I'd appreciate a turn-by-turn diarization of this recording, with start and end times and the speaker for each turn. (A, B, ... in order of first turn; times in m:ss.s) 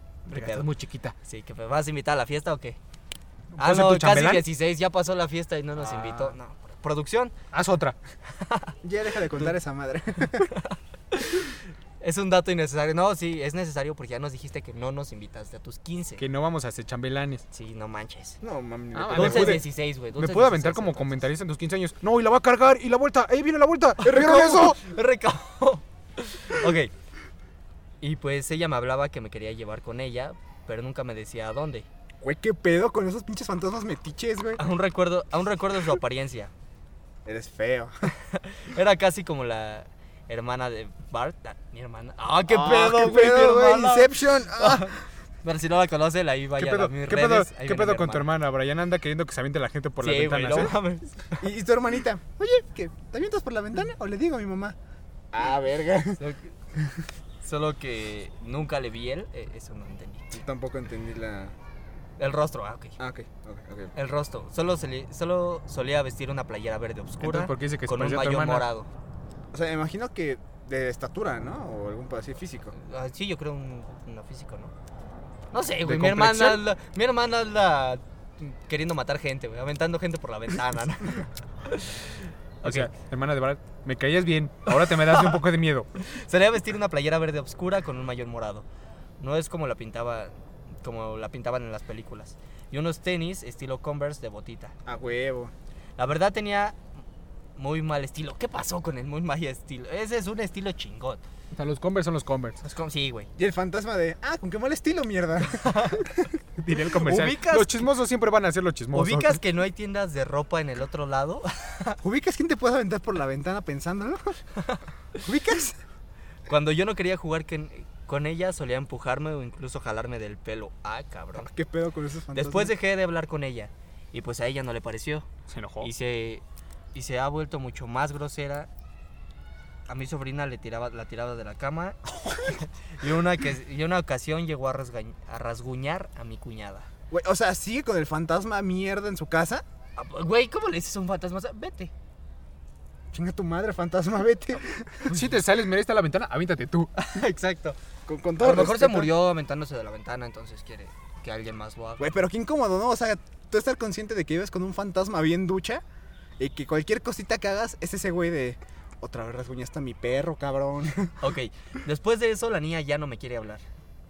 0:00.3-0:01.1 A
0:00.3-0:00.7 B
0:01.2-0:02.8 B
0:03.6-0:04.5 A
0:03.6-0:07.4 B
0:05.8-0:06.4 C
0:07.5-0:08.0 A
0:08.4-0:08.7 B
0:08.8-0:10.5 C
0:10.4-0:16.2 B
0:16.2-0:17.4 A
0:17.5-0:18.4 B
0:18.4-0:19.6 C
0:18.9-0:24.8 A
0:19.1-0:21.2 B
0:24.0-0:26.9 B
0:24.1-0:24.6 C
0:28.0-0:31.9 B
0:32.2-0:34.6 C
0:34.6-0:36.5 B
0:37.3-0:37.9 C
0:38.2-0:48.3 B
0:42.5-0:44.9 C
0:46.6-0:50.8 A
0:50.0-0:51.4 B
0:51.4-0:54.8 C
0:55.3-0:56.2 C
0:56.2-0:56.5 B
0:57.4-1:00.4 B
1:00.3-1:01.6 C
1:02.2-1:03.0 B
1:03.0-1:03.9 C
1:03.9-1:08.9 B
1:07.2-1:08.7 A
1:09.5-1:12.7 C
1:12.8-1:14.7 B
1:15.5-1:22.9 B
1:15.8-1:16.6 A
1:22.6-1:25.9 A
1:24.7-1:25.4 B
1:26.0-1:28.7 B
1:29.2-1:34.7 B
1:34.9-1:35.5 C
1:36.0-1:36.8 B
1:37.6-1:41.2 B
1:41.5-1:42.6 A
1:42.6-1:43.3 B
1:43.4-1:46.3 C
1:45.5-1:46.1 B
1:46.6-1:49.4 A
1:47.0-1:47.9 B
1:48.9-1:52.0 B
1:52.0-1:54.3 C
1:55.2-1:55.8 C
1:56.5-2:01.5 B
2:01.4-2:02.7 C
2:02.3-2:05.3 B
2:05.5-2:05.9 A
2:05.8-2:06.4 B
2:06.9-2:08.7 B
2:09.9-2:16.9 B
2:17.1-2:19.6 C
2:20.0-2:21.9 B
2:23.1-2:25.1 C
2:25.1-2:26.9 A
2:27.0-2:27.8 B
2:28.1-2:29.1 C
2:28.4-2:32.2 B
2:32.0-2:35.8 C
2:36.4-2:41.2 C
2:41.2-2:43.6 B